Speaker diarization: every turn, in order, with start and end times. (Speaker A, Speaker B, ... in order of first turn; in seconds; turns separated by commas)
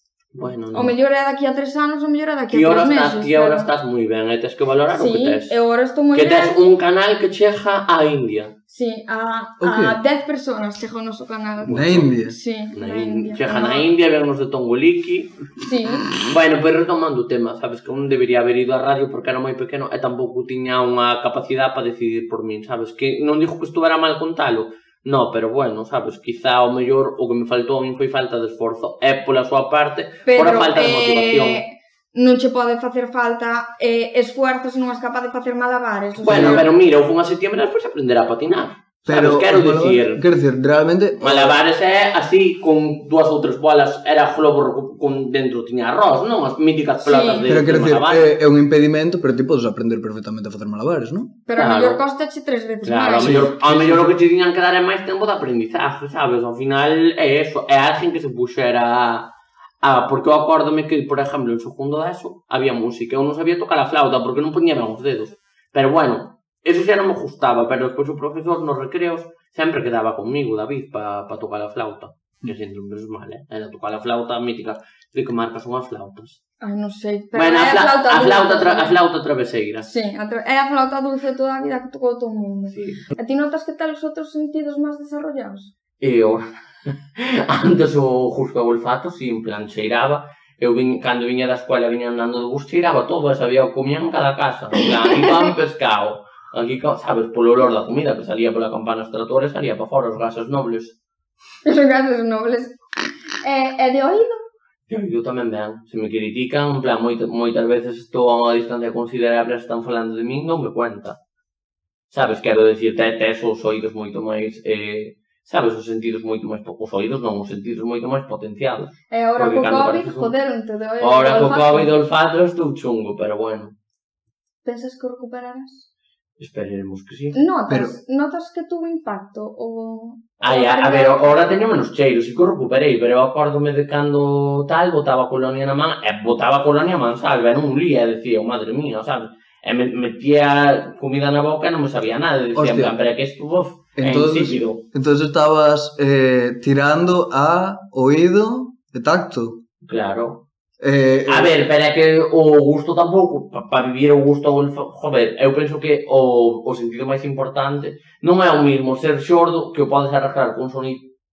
Speaker A: 0.3-0.9, Speaker B: 0.7-3.7, Speaker A: 2.5-5.6, Speaker B: 4.9-6.6, Speaker A: 6.1-8.5, Speaker B: 8.7-13.9, Speaker C: 9.6-10.0, Speaker C: 11.7-12.4, Speaker A: 11.7-12.0, Speaker A: 12.8-15.3, Speaker B: 15.6-16.1, Speaker A: 16.1-31.6, Speaker B: 30.3-36.7, Speaker C: 36.2-36.6, Speaker A: 36.2-40.2, Speaker C: 39.0-41.6, Speaker A: 41.2-48.4, Speaker B: 47.0-47.5, Speaker C: 47.5-51.3, Speaker B: 51.5-53.5, Speaker A: 51.6-52.0, Speaker A: 52.8-59.3, Speaker C: 53.2-54.1, Speaker A: 59.8-76.4, Speaker B: 76.6-79.0, Speaker A: 77.3-79.9, Speaker B: 79.8-85.7, Speaker A: 82.7-83.0, Speaker A: 86.0-100.9, Speaker B: 101.6-102.8, Speaker B: 103.4-104.4, Speaker A: 104.9-111.2, Speaker A: 112.1-120.3, Speaker B: 119.1-121.9, Speaker A: 121.0-123.7, Speaker B: 124.6-125.9, Speaker A: 126.4-127.4, Speaker B: 127.3-131.7, Speaker C: 127.7-127.9, Speaker A: 130.4-144.8, Speaker C: 142.6-142.9, Speaker C: 143.9-149.6, Speaker A: 149.8-150.4, Speaker C: 150.8-151.6, Speaker A: 151.3-161.0